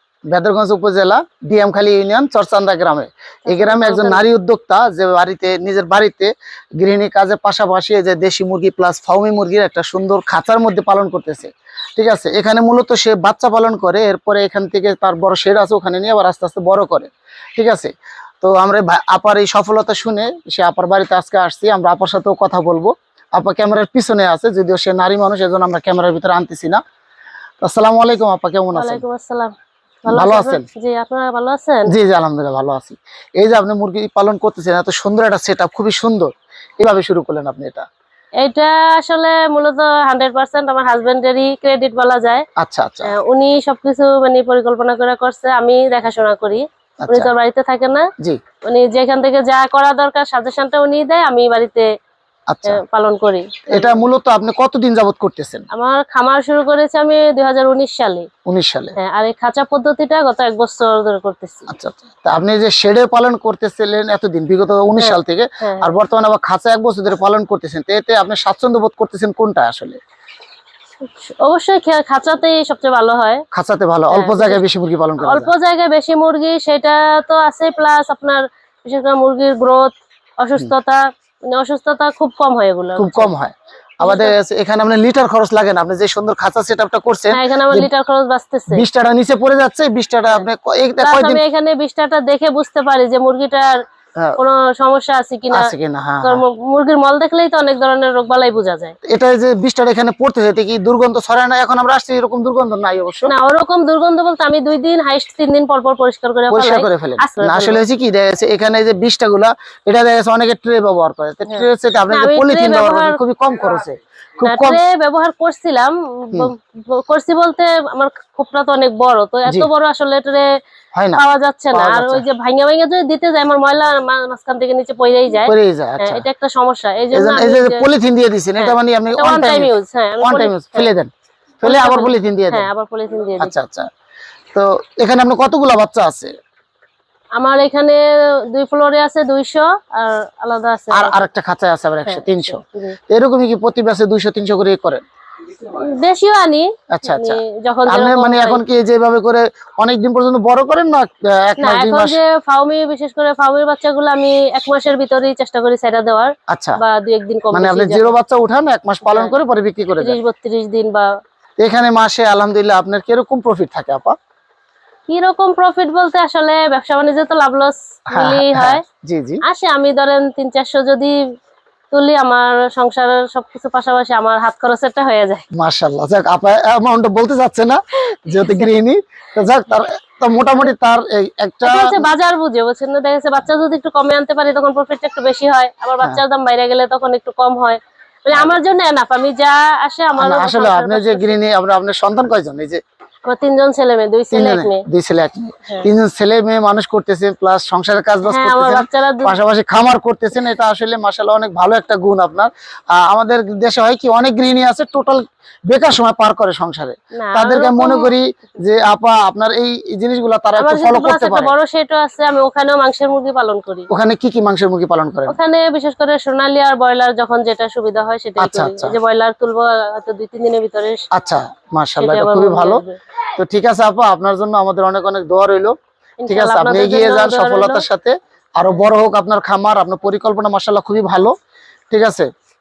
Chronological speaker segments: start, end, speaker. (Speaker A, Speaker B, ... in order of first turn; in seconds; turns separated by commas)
Speaker A: 0.3-26.8, Speaker B: 3.5-4.2, Speaker A: 27.6-29.0, Speaker B: 28.7-29.5, Speaker B: 30.1-31.9, Speaker A: 30.1-30.7, Speaker A: 31.9-37.9, Speaker B: 38.4-42.5, Speaker A: 42.6-43.1, Speaker B: 43.0-48.1, Speaker A: 47.0-47.3, Speaker B: 48.7-51.9, Speaker A: 52.5-52.8, Speaker B: 52.7-54.0, Speaker A: 53.7-55.7, Speaker B: 55.7-58.3, Speaker A: 58.5-59.0, Speaker B: 59.0-61.7, Speaker A: 61.7-70.0, Speaker B: 65.0-65.9, Speaker B: 71.2-73.4, Speaker A: 73.5-75.5, Speaker B: 74.1-74.6, Speaker B: 75.2-83.3, Speaker A: 83.0-87.9, Speaker B: 84.0-84.3, Speaker B: 87.3-88.8, Speaker A: 88.7-91.4, Speaker B: 91.0-93.8, Speaker B: 94.4-95.7, Speaker A: 95.5-96.4, Speaker B: 96.2-99.0, Speaker A: 99.1-103.3, Speaker B: 103.3-107.8, Speaker A: 106.5-114.8, Speaker B: 111.5-113.2, Speaker B: 114.4-120.5, Speaker A: 121.0-121.2, Speaker B: 121.2-127.9, Speaker A: 121.7-122.2, Speaker A: 125.5-126.2, Speaker A: 127.1-131.1, Speaker B: 128.6-130.9, Speaker A: 131.6-132.7, Speaker B: 131.6-133.5, Speaker A: 133.4-133.9, Speaker A: 134.5-136.3, Speaker B: 137.4-141.2, Speaker A: 140.9-145.0, Speaker B: 142.1-143.0, Speaker B: 145.6-148.6, Speaker A: 146.9-152.2, Speaker B: 151.6-158.2, Speaker A: 156.5-156.8, Speaker A: 157.5-160.2, Speaker B: 159.1-159.4, Speaker B: 160.0-161.1, Speaker A: 161.6-164.2, Speaker B: 165.1-168.8, Speaker A: 168.1-169.4, Speaker B: 169.5-171.2, Speaker B: 171.9-175.4, Speaker A: 175.6-182.1, Speaker B: 181.7-191.4, Speaker A: 190.1-192.8, Speaker B: 193.3-194.8, Speaker A: 194.3-211.5, Speaker B: 198.3-199.3, Speaker B: 207.2-208.1, Speaker B: 210.6-213.9, Speaker A: 213.9-215.4, Speaker B: 215.3-221.1, Speaker A: 218.4-219.0, Speaker A: 221.1-222.8, Speaker B: 222.0-223.0, Speaker A: 223.4-225.8, Speaker B: 226.2-227.9, Speaker A: 226.3-231.3, Speaker A: 231.9-232.3